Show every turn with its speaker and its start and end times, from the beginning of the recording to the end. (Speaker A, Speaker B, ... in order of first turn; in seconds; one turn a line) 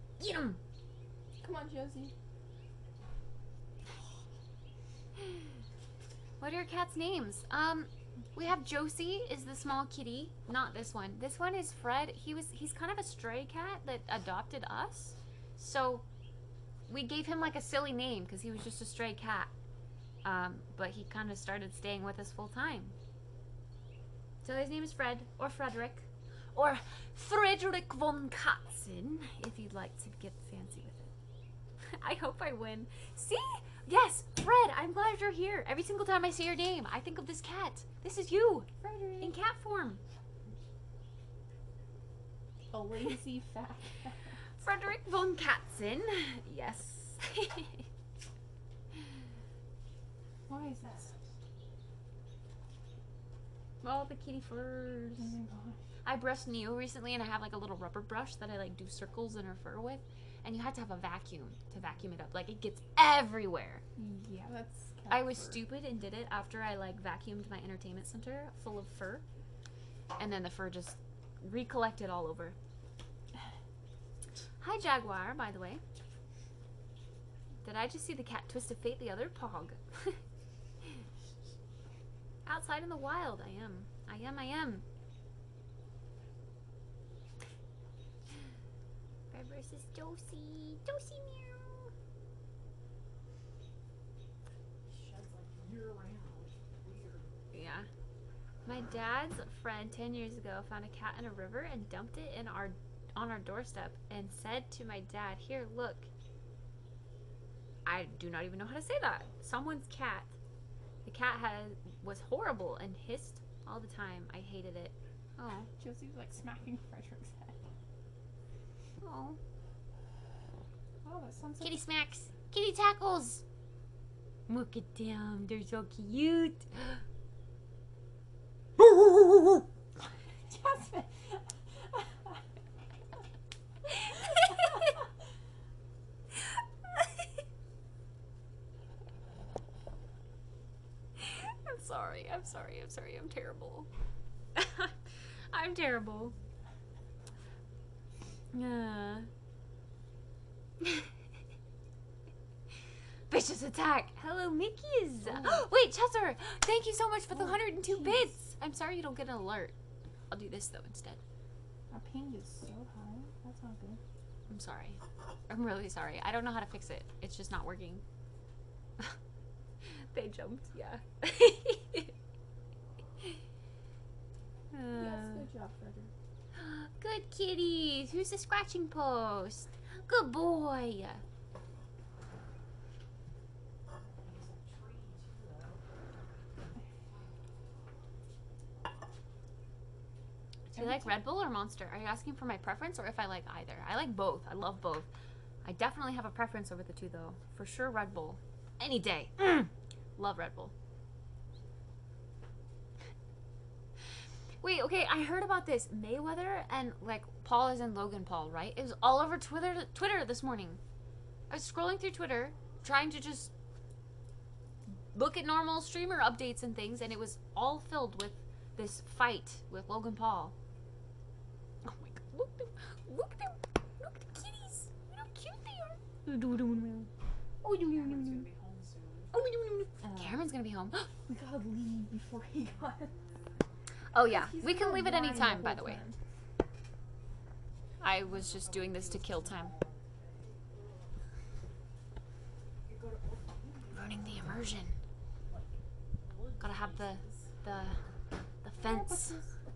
Speaker A: 0.2-0.6
Speaker B: 1.4-2.1
Speaker A: 6.4-16.0
Speaker A: 16.9-19.5
Speaker A: 20.2-22.9
Speaker A: 24.4-31.1
Speaker A: 31.8-38.7
Speaker B: 38.8-39.4
Speaker A: 39.2-40.0
Speaker B: 42.7-44.4
Speaker A: 44.6-47.9
Speaker B: 50.5-51.1
Speaker C: 50.8-51.2
Speaker A: 53.8-55.3
Speaker B: 55.2-55.8
Speaker A: 56.0-63.8
Speaker B: 64.0-65.6
Speaker A: 65.1-69.2
Speaker A: 70.2-72.5
Speaker A: 74.6-75.8
Speaker A: 77.6-80.2
Speaker A: 82.5-84.8
Speaker A: 89.3-91.9
Speaker C: 94.8-97.3
Speaker A: 97.5-97.9
Speaker A: 98.7-106.1
Speaker A: 107.8-110.3
Speaker A: 111.0-115.7
Speaker B: 115.8-117.7
Speaker A: 119.0-119.4
Speaker B: 121.0-121.8
Speaker A: 121.6-123.4
Speaker A: 124.5-127.0
Speaker A: 129.0-129.6
Speaker B: 130.5-132.4
Speaker A: 133.9-134.9
Speaker A: 136.3-137.1
Speaker A: 141.2-143.9
Speaker A: 144.5-146.3
Speaker A: 148.5-149.3
Speaker A: 150.8-151.1
Speaker A: 153.3-159.7
Speaker B: 155.2-155.6
Speaker B: 157.3-158.3
Speaker A: 160.3-161.2
Speaker B: 161.9-164.0
Speaker A: 164.5-168.0
Speaker A: 169.8-172.1
Speaker A: 174.7-175.5
Speaker B: 174.9-176.1
Speaker A: 176.5-181.2
Speaker C: 183.9-185.8
Speaker C: 187.1-187.4
Speaker A: 190.7-195.1
Speaker B: 190.7-191.2
Speaker A: 195.6-200.7
Speaker A: 204.6-210.8
Speaker A: 211.5-213.5
Speaker A: 215.1-220.5
Speaker A: 221.8-227.1
Speaker A: 227.6-228.4
Speaker C: 227.9-229.4
Speaker A: 229.3-231.1
Speaker B: 230.0-230.3
Speaker B: 231.2-233.1
Speaker C: 233.0-233.9
Speaker A: 234.1-236.0
Speaker B: 234.2-236.2
Speaker A: 238.0-239.7
Speaker C: 238.1-241.2
Speaker C: 242.8-244.7
Speaker A: 243.9-244.9
Speaker C: 245.4-247.9
Speaker A: 246.6-248.0
Speaker A: 248.6-249.4
Speaker B: 248.8-249.6